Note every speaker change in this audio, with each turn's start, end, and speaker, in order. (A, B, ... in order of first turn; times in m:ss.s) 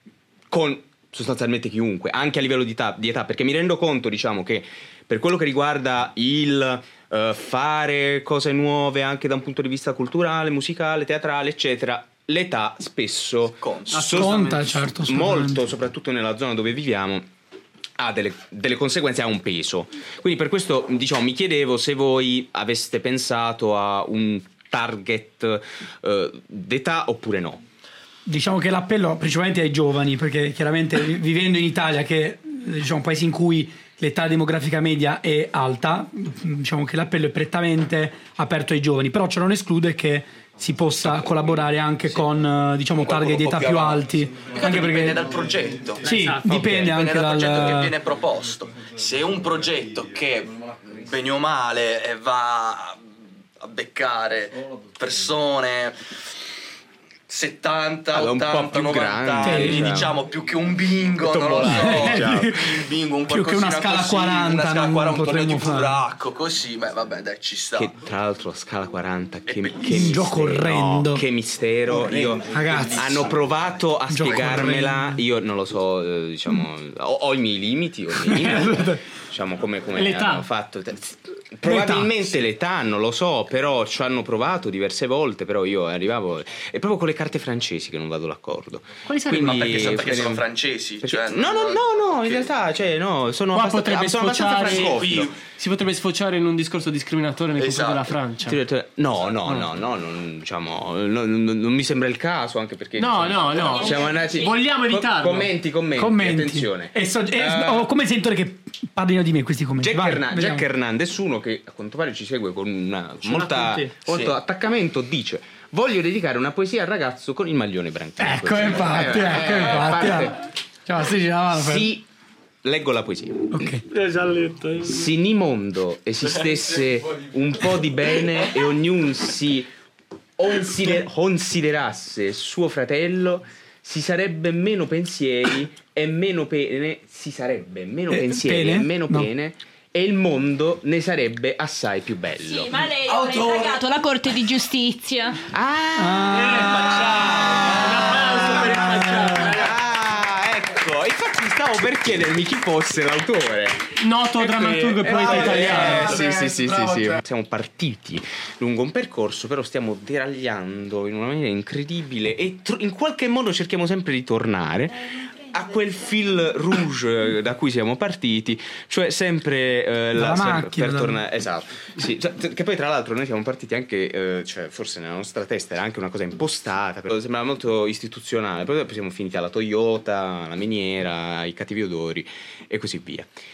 0:00.5-0:14.3 A
0:13.6-0:14.1 B
0:13.9-0:14.8 C
0:14.1-0:15.6 D
0:15.0-0:17.3 A
0:18.0-0:27.6 A
0:28.2-0:45.2 D
0:41.0-0:41.6 A
0:43.0-0:46.1 B
0:46.0-0:48.0 D
0:46.0-0:47.0 C
0:46.7-0:53.0 B
0:53.6-0:56.0 B
0:57.3-1:07.9 B
0:58.1-1:00.2 A
0:59.4-1:00.0 D
1:01.2-1:02.5 A
1:01.6-1:06.0 D
1:07.8-1:30.4 A
1:09.4-1:10.2 B
1:09.8-1:11.2 D
1:11.9-1:13.2 B
1:12.4-1:13.1 D
1:14.1-1:15.2 D
1:18.1-1:19.0 D
1:19.9-1:20.5 C
1:21.6-1:22.2 D
1:29.0-1:29.9 C
1:29.4-1:32.5 B
1:31.0-1:35.3 A
1:33.5-1:38.6 C
1:34.5-1:35.4 B
1:37.6-1:38.1 B
1:38.4-1:47.9 A
1:43.0-1:45.5 C
1:43.6-1:44.5 E
1:46.0-1:50.6 D
1:49.8-2:00.3 A
1:53.2-1:53.9 C
1:54.1-1:54.3 B
1:58.2-2:01.8 D
2:01.5-2:02.0 A
2:02.6-2:03.7 A
2:03.5-2:03.8 D
2:03.9-2:05.1 C
2:04.8-2:09.7 A
2:10.4-2:22.9 A
2:18.1-2:19.3 D
2:22.4-2:25.4 E
2:25.5-3:03.3 A
2:26.0-2:27.5 D
2:26.6-2:27.0 B
2:26.6-2:29.7 C
2:28.8-2:29.3 D
2:34.0-2:36.2 C
2:50.1-2:51.2 D